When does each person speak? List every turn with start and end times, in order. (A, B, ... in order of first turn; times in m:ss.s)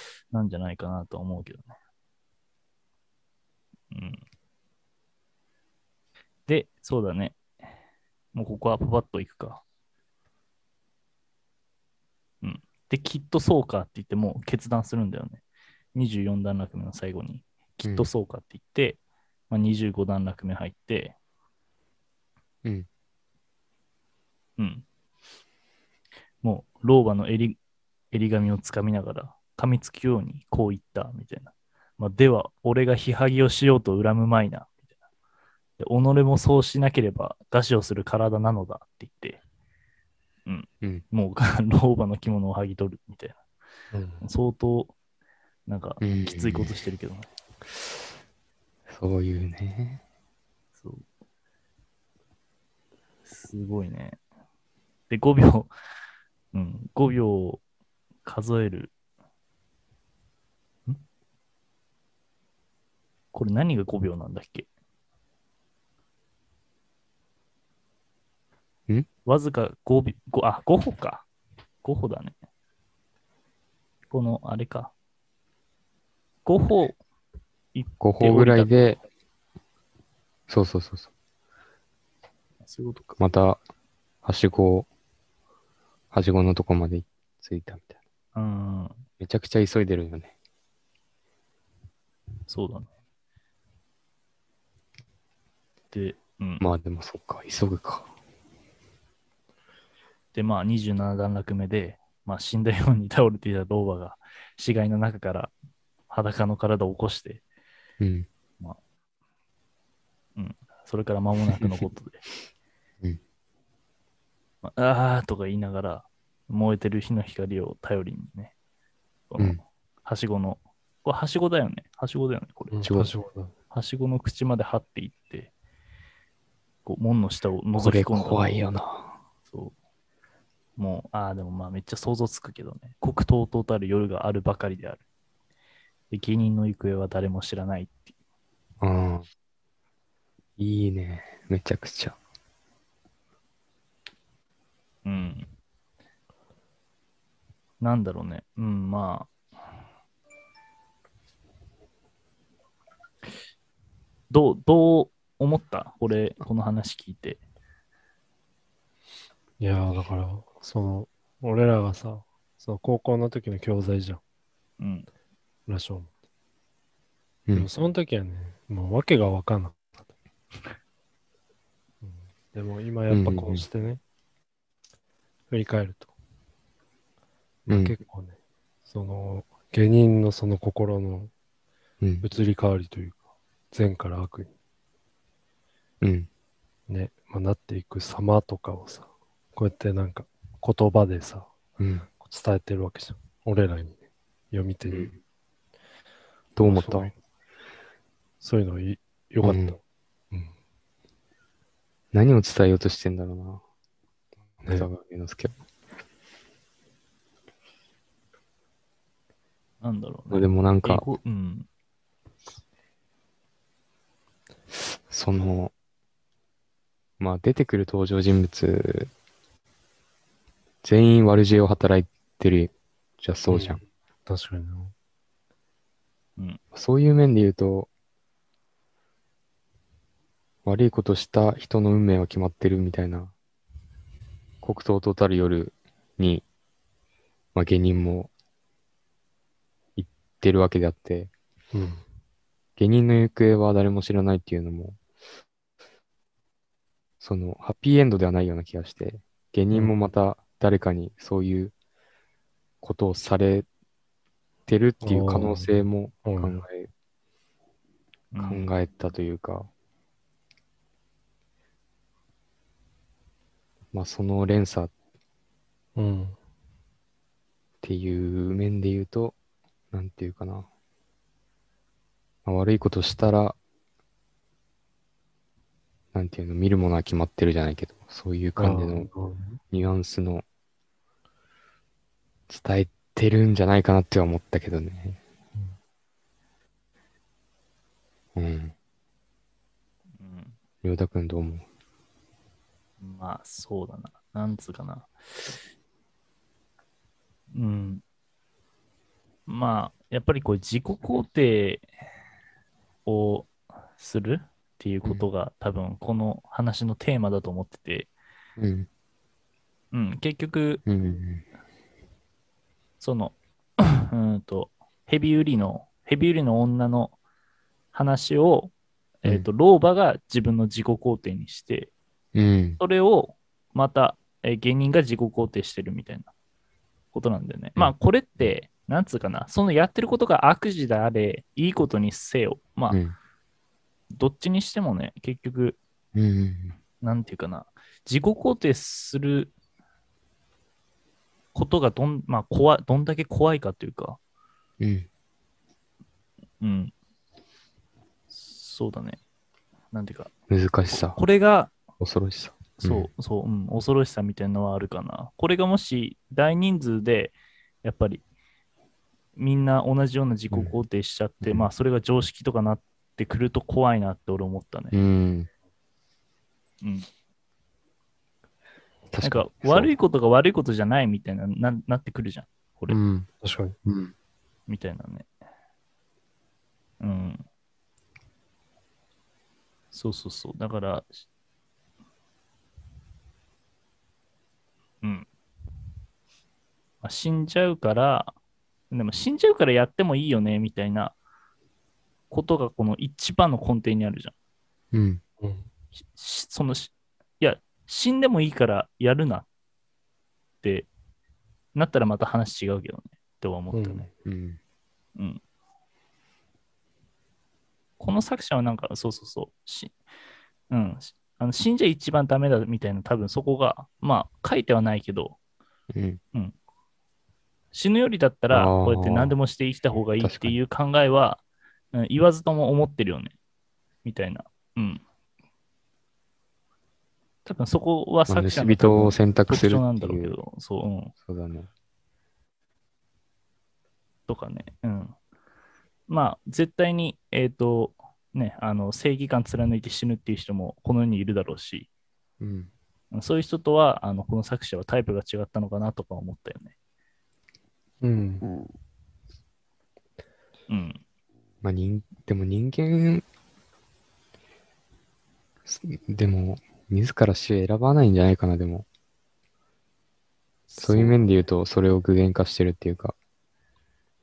0:00.3-0:01.7 A
0:03.9-0:04.2 A
0:06.5-0:07.4 A
0:08.3-0:09.6 A
0:12.4-0:15.4 A
0:15.9-0:19.0 A
0:19.5-0:21.2 A
0:24.6-0:24.8 A
0:26.4-0:27.6 A
0:28.1-0:34.7 A
0:35.8-0:39.4 A
0:40.4-0:43.4 A
0:43.9-0:44.2 B
0:44.2-0:44.9 A
0:45.7-0:47.3 A
0:46.0-0:46.7 C
0:48.9-0:50.0 C
0:53.3-0:54.2 A
0:55.1-0:55.7 A
0:56.5-0:57.6 A
0:58.2-0:58.9 A
1:03.3-1:04.7 A
1:09.2-1:11.2 A
1:11.8-1:12.3 A
1:14.1-1:14.9 A
1:16.4-1:17.0 A
1:17.7-1:19.0 A
1:18.0-1:19.0 C
1:20.5-1:21.1 C
1:22.6-1:23.2 A
1:23.2-1:23.6 C
1:24.2-1:24.9 C
1:26.1-1:27.9 C
1:28.3-1:29.0 A
1:29.2-1:30.3 C
1:32.5-1:32.9 A
1:35.9-1:36.6 A
1:36.6-1:38.1 C
1:40.3-1:45.5 A
1:46.1-1:47.4 A
1:48.0-1:48.3 C
1:50.4-1:52.2 A
1:54.6-1:58.5 A
1:59.3-2:02.8 A
2:02.7-2:03.5 B
2:02.8-2:03.1 C
2:03.7-2:05.5 A
2:06.8-2:08.7 A
2:07.8-2:09.1 C
2:09.5-2:09.7 A
2:10.8-2:15.0 A
2:16.1-2:18.0 A
2:18.8-2:19.3 C
2:20.6-2:22.2 C
2:25.0-2:25.5 A
2:27.8-2:29.3 A
2:34.3-2:37.4 A
2:39.6-2:44.2 B
2:44.8-2:45.1 A
2:45.7-2:46.1 B
2:47.5-2:50.0 B
2:52.0-2:54.0 B
2:53.1-2:53.6 C
2:55.5-2:56.1 B
2:57.6-3:01.3 B
2:57.7-2:57.9 C
3:02.0-3:02.2 C
3:02.2-3:03.2 B
3:03.7-3:04.5 B
3:06.0-3:06.3 C
3:06.9-3:11.5 B
3:11.8-3:12.1 C
3:12.2-3:13.9 B
3:14.5-3:15.1 B
3:16.6-3:17.1 C
3:16.6-3:17.1 B
3:18.4-3:19.8 B
3:19.4-3:19.7 C
3:22.1-3:23.6 C
3:24.6-3:25.6 C
3:29.8-3:31.7 A
3:30.3-3:31.0 C
3:35.1-3:35.7 C
3:37.2-3:39.1 C
3:40.8-3:43.8 C
3:43.5-3:44.9 B
3:46.7-3:47.9 C
3:50.6-3:53.3 C
3:54.6-3:56.4 C
3:57.5-3:58.3 C
4:00.0-4:01.3 C
4:01.7-4:02.0 B
4:02.8-4:05.0 C
4:07.2-4:11.7 C
4:12.8-4:13.7 C
4:14.7-4:16.9 C
4:15.0-4:16.6 B
4:18.3-4:18.7 A
4:18.4-4:19.7 C
4:23.9-4:24.9 C
4:26.0-4:26.4 B
4:27.8-4:29.4 C
4:29.9-4:30.7 C
4:32.4-4:33.6 C
4:36.1-4:39.1 C
4:38.6-4:39.6 B
4:39.7-4:40.4 C
4:42.5-4:45.2 C
4:48.3-4:48.7 C
4:50.2-4:50.5 A
4:50.8-4:51.6 C
4:53.0-4:55.5 A
4:57.5-4:58.0 A
4:59.5-5:01.8 A
5:03.0-5:08.1 A
5:08.6-5:08.9 C
5:09.9-5:10.8 A
5:10.8-5:11.4 C
5:13.0-5:17.1 A
5:17.9-5:21.9 A
5:22.3-5:22.8 C
5:22.8-5:26.3 A
5:27.1-5:33.0 A
5:27.8-5:28.4 C
5:34.1-5:35.8 A
5:36.1-5:36.7 C
5:37.0-5:39.5 A
5:41.5-5:44.2 A
5:44.8-5:45.1 C
5:46.6-5:46.9 A
5:48.3-5:49.2 A
5:49.9-5:50.3 A
5:50.5-5:51.2 C
5:50.9-5:51.7 A
5:52.0-5:53.1 C
5:52.8-5:58.2 A
5:59.4-6:05.0 A
6:01.4-6:01.7 C
6:04.9-6:05.5 C
6:06.8-6:07.1 A
6:09.1-6:09.9 C
6:09.2-6:13.0 A
6:12.9-6:13.3 C
6:13.4-6:13.7 B
6:13.8-6:14.1 C
6:14.7-6:15.3 A
6:17.0-6:17.4 A
6:19.9-6:21.2 A
6:25.0-6:25.3 A
6:27.0-6:28.3 A
6:28.9-6:31.1 A
6:32.3-6:34.3 A
6:34.9-6:35.2 C
6:35.4-6:35.7 B
6:36.1-6:39.5 A
6:40.6-6:40.9 A
6:41.7-6:44.1 A
6:43.7-6:44.0 B
6:44.2-6:44.6 C
6:45.2-6:45.4 A
6:48.0-6:49.9 A
6:50.7-6:55.4 A
6:55.9-6:56.2 C
6:57.7-7:01.4 A
6:58.5-6:59.3 C
7:00.2-7:00.6 C
7:01.9-7:03.3 A
7:04.0-7:05.0 A
7:07.4-7:11.1 A
7:08.3-7:10.4 C
7:11.2-7:11.7 C
7:14.3-7:15.1 A
7:16.1-7:21.9 A
7:22.4-7:22.7 C
7:23.1-7:26.7 A
7:28.0-7:28.5 B
7:30.7-7:31.0 A
7:31.6-7:33.2 C
7:35.6-7:38.8 C
7:40.7-7:41.1 A
7:40.8-7:43.2 C